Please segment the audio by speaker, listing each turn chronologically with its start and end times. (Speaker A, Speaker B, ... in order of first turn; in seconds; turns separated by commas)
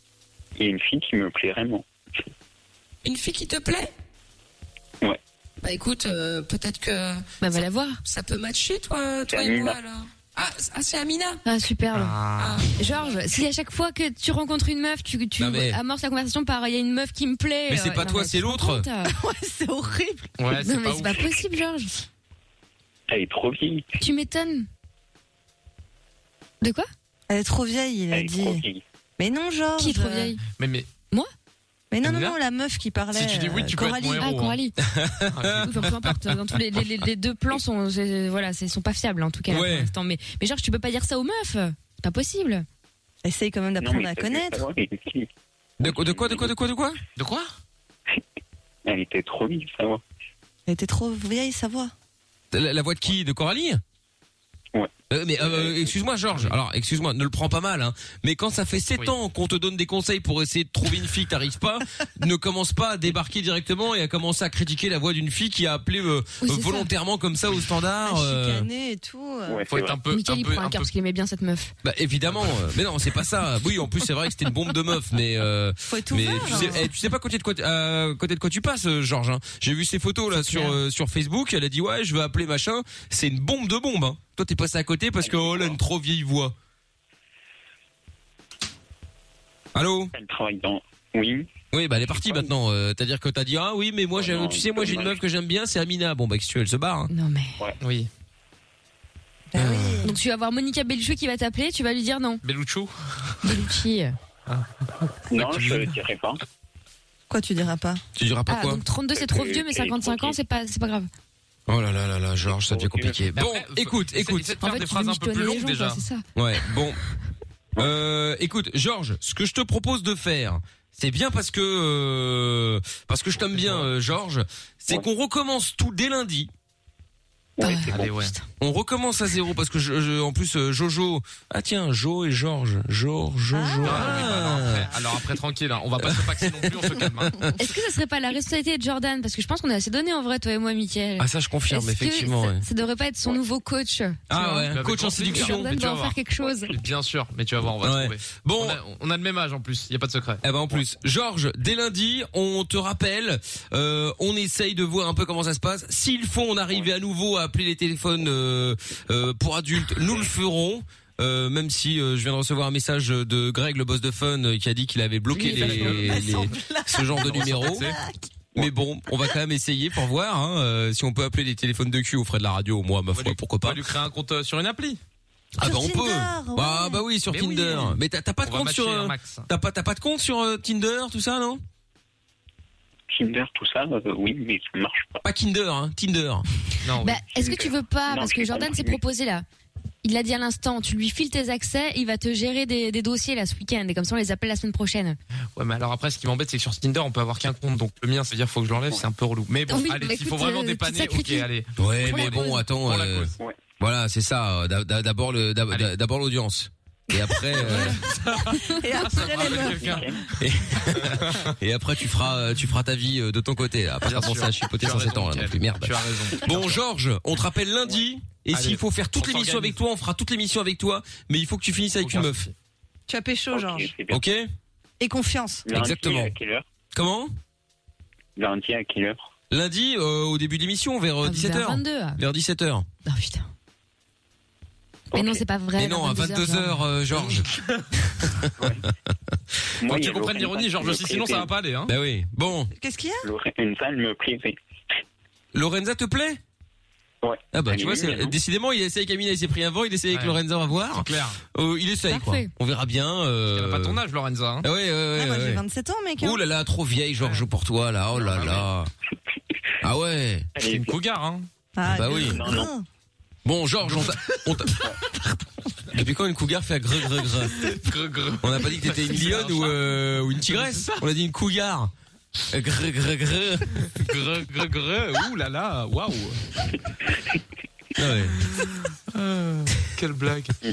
Speaker A: 0.6-1.8, Speaker B: 3.0-3.9, Speaker B: 5.6-11.4, Speaker C: 7.4-8.0, Speaker A: 9.3-9.8, Speaker C: 11.4-12.1, Speaker D: 11.9-12.7, Speaker B: 12.4-13.3, Speaker C: 12.8-19.1, Speaker E: 15.4-15.8, Speaker E: 17.7-18.9, Speaker F: 19.1-20.3, Speaker D: 20.4-21.4, Speaker C: 20.5-21.9, Speaker A: 23.1-23.9, Speaker C: 24.0-24.7, Speaker C: 26.6-26.9, Speaker F: 27.3-28.6, Speaker A: 28.1-28.8, Speaker F: 29.2-30.3, Speaker C: 29.8-30.4, Speaker D: 30.6-30.9, Speaker F: 31.9-34.3, Speaker D: 32.0-32.4, Speaker D: 33.1-34.6, Speaker C: 34.2-34.8, Speaker E: 34.8-35.8, Speaker D: 35.3-35.7, Speaker C: 35.6-42.6, Speaker E: 39.5-39.9, Speaker F: 43.2-44.6, Speaker A: 43.8-45.3, Speaker E: 45.8-47.0, Speaker A: 45.8-46.5, Speaker D: 47.2-47.5, Speaker A: 48.9-50.0, Speaker F: 50.7-51.9, Speaker E: 52.5-53.8, Speaker E: 55.1-68.7, Speaker A: 55.4-55.9, Speaker C: 66.4-66.9, Speaker F: 68.1-69.7, Speaker A: 69.5-70.0, Speaker D: 69.7-70.9, Speaker C: 70.1-71.7, Speaker E: 71.8-86.5, Speaker F: 75.9-76.9, Speaker C: 80.4-80.8, Speaker A: 85.2-85.8, Speaker E: 89.8-90.1, Speaker A: 90.1-91.5, Speaker E: 91.7-97.1, Speaker A: 92.1-92.5, Speaker A: 94.2-95.2, Speaker C: 97.1-97.6, Speaker D: 97.8-98.1, Speaker F: 99.5-100.2, Speaker E: 99.5-100.0, Speaker C: 100.0-102.4, Speaker D: 102.4-103.4, Speaker C: 103.4-104.2, Speaker D: 104.5-105.9, Speaker A: 105.3-106.4, Speaker F: 107.3-108.0, Speaker E: 108.2-108.8, Speaker C: 108.5-111.1, Speaker A: 109.2-110.4, Speaker E: 111.7-114.5, Speaker A: 112.5-113.3, Speaker D: 113.3-116.0, Speaker C: 114.6-116.2, Speaker E: 116.4-117.0, Speaker E: 117.8-126.5, Speaker D: 123.4-123.9, Speaker A: 127.6-128.0, Speaker C: 127.6-128.5, Speaker D: 127.9-128.3, Speaker E: 128.6-134.9, Speaker F: 133.5-134.7, Speaker D: 133.8-137.4, Speaker E: 136.0-137.6, Speaker C: 137.6-146.7, Speaker E: 141.2-142.7, Speaker E: 144.3-145.7, Speaker D: 144.7-150.4, Speaker E: 147.8-148.8, Speaker E: 150.4-167.9, Speaker F: 165.3-168.3, Speaker D: 165.4-166.4, Speaker D: 167.2-168.0, Speaker E: 168.6-173.8, Speaker D: 173.1-175.0, Speaker E: 175.6-181.6, Speaker F: 175.6-177.0, Speaker D: 177.3-179.5, Speaker A: 183.1-185.2, Speaker E: 185.2-186.4, Speaker D: 186.8-187.2, Speaker C: 187.0-189.4, Speaker A: 187.3-189.0, Speaker C: 190.0-195.2, Speaker D: 195.6-203.4, Speaker C: 199.7-201.5, Speaker E: 201.8-208.0, Speaker C: 202.0-202.6, Speaker D: 207.6-210.3, Speaker F: 207.7-210.1, Speaker A: 209.3-210.2, Speaker E: 210.3-222.5, Speaker D: 211.0-211.5, Speaker D: 214.1-216.8, Speaker D: 218.5-219.8, Speaker D: 222.0-222.5, Speaker F: 223.1-223.9, Speaker A: 223.5-224.2, Speaker E: 224.1-224.5, Speaker F: 225.0-225.7, Speaker A: 225.7-226.7, Speaker E: 225.7-226.3, Speaker E: 226.9-227.3, Speaker A: 228.4-229.3, Speaker E: 229.5-232.9, Speaker C: 231.2-232.2, Speaker C: 233.1-233.5, Speaker A: 235.1-235.4, Speaker C: 235.1-236.8, Speaker E: 235.8-237.5, Speaker E: 238.2-238.8, Speaker A: 239.8-241.5, Speaker D: 239.9-241.9, Speaker E: 241.9-242.7, Speaker F: 242.8-243.3, Speaker A: 243.2-244.6, Speaker E: 245.5-246.4, Speaker A: 247.2-248.4, Speaker E: 247.5-254.0, Speaker D: 250.1-251.4, Speaker C: 252.1-252.5, Speaker D: 253.5-254.7, Speaker E: 254.6-255.6, Speaker F: 255.1-256.4, Speaker E: 256.2-258.9, Speaker D: 257.2-257.5, Speaker D: 258.1-258.7, Speaker E: 259.8-260.5, Speaker A: 260.6-260.9, Speaker D: 260.6-261.5, Speaker F: 261.8-262.9, Speaker E: 261.9-262.7, Speaker A: 262.0-262.7, Speaker E: 263.4-264.9, Speaker D: 263.9-264.4, Speaker E: 265.9-267.7, Speaker D: 267.6-271.0, Speaker E: 268.4-271.9, Speaker E: 272.5-273.8, Speaker D: 273.8-276.4, Speaker E: 278.0-278.6, Speaker D: 279.1-280.6